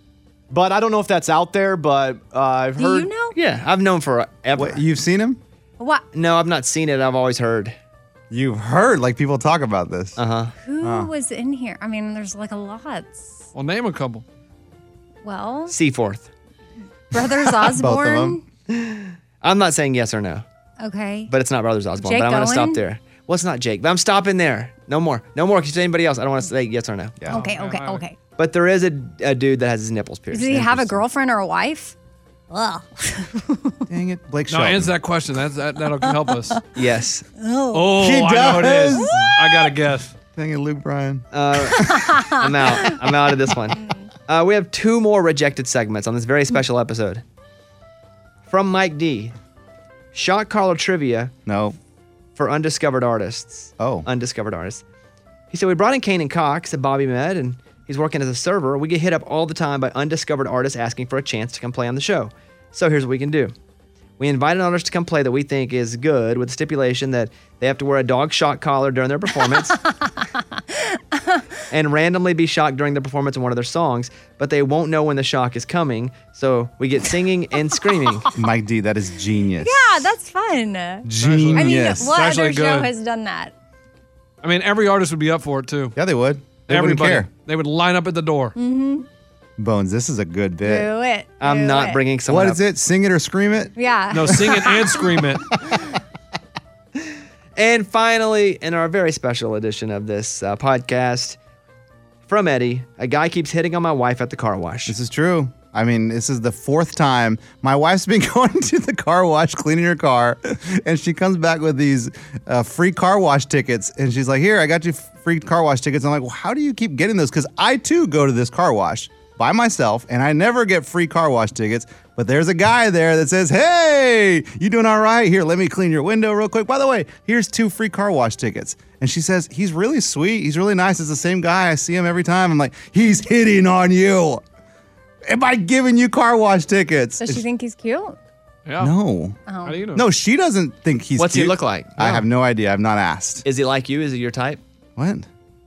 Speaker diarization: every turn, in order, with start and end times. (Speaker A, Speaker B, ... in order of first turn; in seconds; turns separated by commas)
Speaker A: 0.5-3.1, Speaker B: 2.8-3.4, Speaker C: 3.3-4.8, Speaker D: 4.5-5.4, Speaker B: 5.8-6.0, Speaker C: 6.1-7.8, Speaker D: 8.3-10.2, Speaker C: 10.2-10.5, Speaker B: 10.6-13.5, Speaker D: 10.8-11.1, Speaker E: 13.5-14.2, Speaker B: 15.2-15.8, Speaker C: 15.7-16.3, Speaker B: 17.1-18.4, Speaker D: 17.2-18.4, Speaker C: 18.7-20.4, Speaker B: 20.8-21.3, Speaker C: 21.3-27.2, Speaker B: 22.0-22.8, Speaker B: 27.3-28.2, Speaker E: 27.3-28.1, Speaker C: 28.4-31.0, Speaker B: 30.3-32.0, Speaker B: 32.5-33.8, Speaker D: 33.9-35.0, Speaker E: 34.5-36.6, Speaker B: 36.0-36.6, Speaker C: 36.7-37.3, Speaker B: 37.4-38.1, Speaker E: 37.7-40.1, Speaker D: 38.0-39.3, Speaker B: 38.9-39.6, Speaker D: 40.4-42.2, Speaker C: 41.3-47.2, Speaker B: 41.7-42.9, Speaker C: 48.5-49.4, Speaker C: 50.1-51.3, Speaker D: 51.5-51.8, Speaker C: 52.4-54.8, Speaker D: 53.8-54.1, Speaker C: 55.5-63.5, Speaker C: 64.2-69.8, Speaker B: 69.8-71.4, Speaker C: 71.7-78.3, Speaker D: 78.3-80.1, Speaker B: 79.6-83.5, Speaker D: 81.0-82.2, Speaker E: 81.2-82.9, Speaker E: 84.4-86.0, Speaker D: 86.0-87.3, Speaker E: 86.7-88.5, Speaker B: 88.5-89.1, Speaker D: 89.6-90.9, Speaker B: 90.6-92.0, Speaker C: 91.4-92.6, Speaker D: 92.3-93.7, Speaker B: 93.8-95.0, Speaker E: 94.1-95.5, Speaker C: 97.6-101.4, Speaker C: 102.3-105.0, Speaker D: 104.9-134.4, Speaker D: 135.3-137.4, Speaker B: 137.2-138.2, Speaker E: 138.7-138.9, Speaker D: 138.8-139.4, Speaker B: 139.5-139.8, Speaker E: 139.7-140.1, Speaker D: 139.9-143.4, Speaker C: 141.2-142.3, Speaker C: 143.4-144.6, Speaker D: 145.0-145.3